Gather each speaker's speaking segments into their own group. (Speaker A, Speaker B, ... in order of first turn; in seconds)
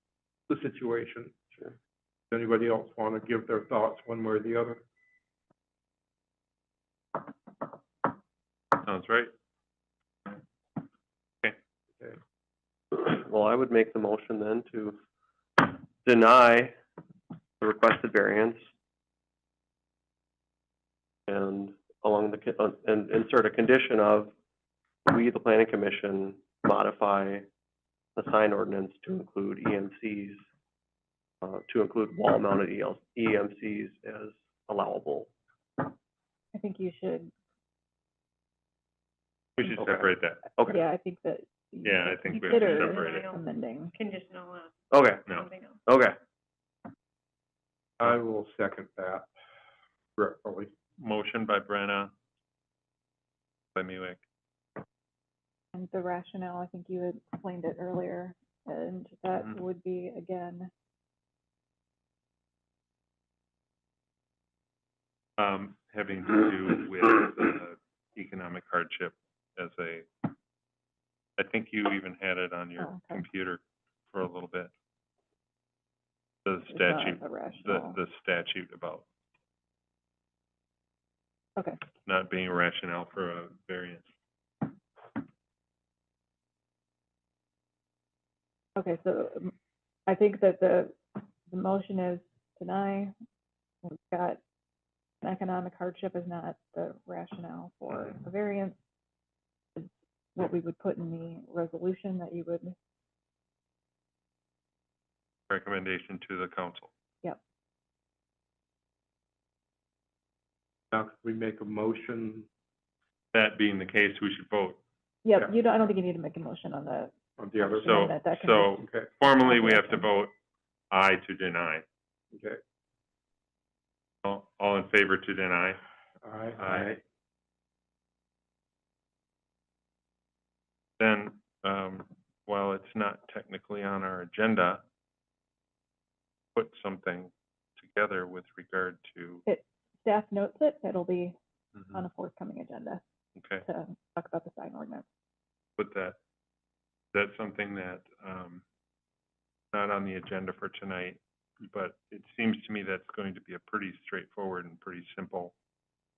Speaker A: 0.5-1.4, 2.3-4.8, 48.0-49.3, 50.2-50.7, 110.9-112.5, 117.4-118.0, 118.8-119.1, 122.3-122.6, 126.2-127.0
Speaker B: 8.7-9.3, 39.6-40.4, 41.8-43.2, 51.0-52.1, 53.8-54.2, 65.4-70.3, 71.4-73.6, 74.1-74.7, 76.4-79.0, 82.0-84.0, 105.5-106.9, 113.3-114.8, 117.8-120.3, 120.9-121.8, 124.2-125.8, 126.6-127.0, 131.0-134.8, 136.5-139.4, 143.4-143.6, 145.8-146.2, 147.1-148.6, 149.7-155.5
Speaker C: 12.9-15.0, 15.6-16.8, 17.6-18.7, 21.3-24.3, 25.1-27.5, 28.2-30.4, 31.4-35.3, 39.8-40.8, 44.9-45.3, 45.9-46.2
Speaker D: 36.5-37.3, 40.6-43.9, 55.7-60.7, 72.8-73.2, 76.7-78.0, 88.8-89.5, 90.1-91.0, 91.5-93.1, 93.8-94.4, 95.2-98.8, 99.8-102.7, 115.2-118.9, 119.4-120.0, 139.4-141.4, 141.9-143.0, 143.6-145.1
Speaker E: 42.6-43.4, 43.9-44.7, 45.4-45.8